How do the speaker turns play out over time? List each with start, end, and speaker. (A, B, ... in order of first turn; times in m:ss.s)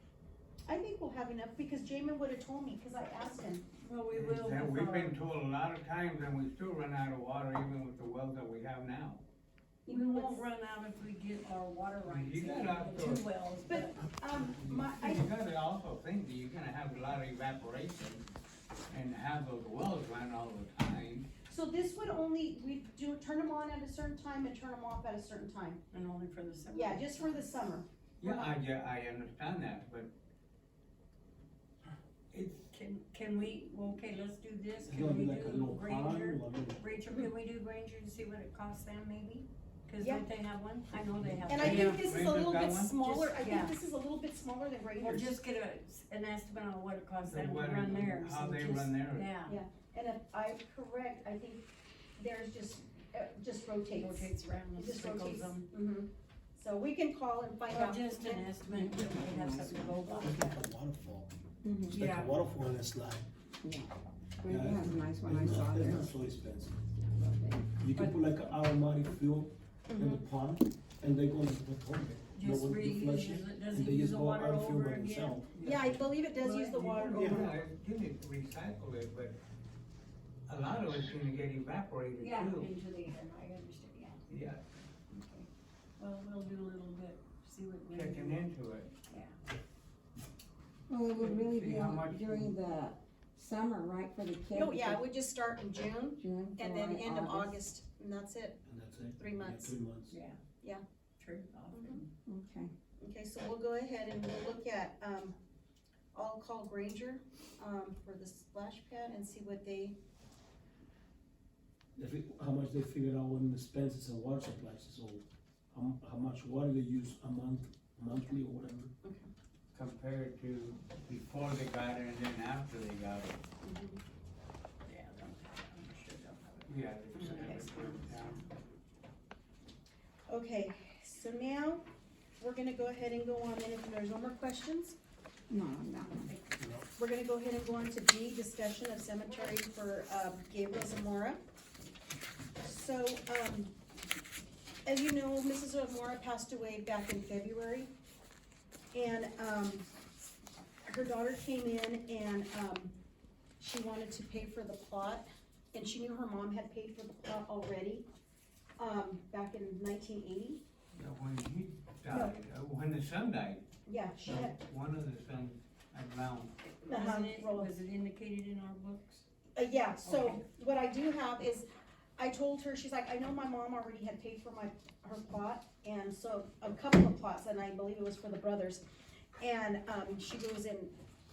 0:00.7-0:03.7 A
0:03.8-0:05.2 B
0:04.1-0:09.2 C
0:09.9-0:10.5 A
0:09.9-0:14.1 B
0:12.0-0:13.2 C
0:13.7-0:15.3 A
0:14.4-0:18.2 C
0:18.9-0:21.3 C
0:21.5-0:25.8 A
0:25.9-0:27.8 B
0:26.7-0:28.6 A
0:28.2-0:30.1 C
0:32.3-0:32.7 C
0:32.7-0:42.0 B
0:34.8-0:36.8 D
0:40.0-0:40.3 A
0:41.2-0:43.3 C
0:41.5-0:45.3 A
0:43.2-0:43.8 B
0:45.0-0:49.6 B
0:47.3-0:49.3 C
0:49.5-0:51.7 A
0:52.2-0:58.5 A
0:53.9-0:55.7 B
0:57.7-1:00.6 B
0:58.7-1:00.4 E
1:00.2-1:01.3 D
1:01.6-1:02.0 E
1:01.9-1:03.3 D
1:01.9-1:02.3 B
1:03.6-1:06.1 E
1:04.4-1:06.8 D
1:06.9-1:07.9 E
1:07.8-1:16.0 D
1:09.9-1:10.3 A
1:12.4-1:15.6 B
1:15.6-1:15.8 C
1:15.6-1:17.6 A
1:16.4-1:16.8 B
1:16.7-1:19.4 C
1:17.1-1:17.4 D
1:20.5-1:22.7 C
1:22.2-1:24.3 B
1:24.3-1:24.6 C
1:25.1-1:25.5 B
1:26.0-1:28.4 B
1:27.9-1:29.0 C
1:29.1-1:29.4 B
1:30.9-1:35.0 E
1:31.2-1:32.6 C
1:34.5-1:38.6 A
1:36.2-1:37.6 E
1:38.7-1:40.1 D
1:39.2-1:39.8 A
1:40.1-1:40.4 B
1:41.2-1:42.1 B
1:41.7-1:42.0 A
1:42.3-1:42.7 E
1:43.0-1:45.4 A
1:46.1-1:50.0 A
1:52.0-1:58.9 D
1:59.0-1:59.3 A
1:59.7-2:03.4 C
2:03.6-2:04.0 A
2:04.8-2:08.5 B
2:06.7-2:08.4 C
2:07.2-2:07.7 A
2:10.3-2:11.8 A
2:12.4-2:15.0 A
2:15.5-2:16.3 E
2:16.0-2:16.6 B
2:16.6-2:16.8 D
2:17.0-2:21.4 A
2:22.6-2:23.7 A
2:24.9-2:27.9 A
2:28.9-2:29.8 A
2:30.9-2:32.9 A
2:33.6-2:38.1 A
2:38.8-2:40.6 A
2:40.9-2:43.6 C
2:42.1-2:42.3 A
2:43.9-2:44.6 A
2:44.2-2:46.6 C
2:46.7-2:49.2 B
2:46.8-2:47.7 A
2:49.6-2:51.7 A
2:50.0-2:50.4 B
2:52.2-2:58.8 A
2:59.4-3:00.9 A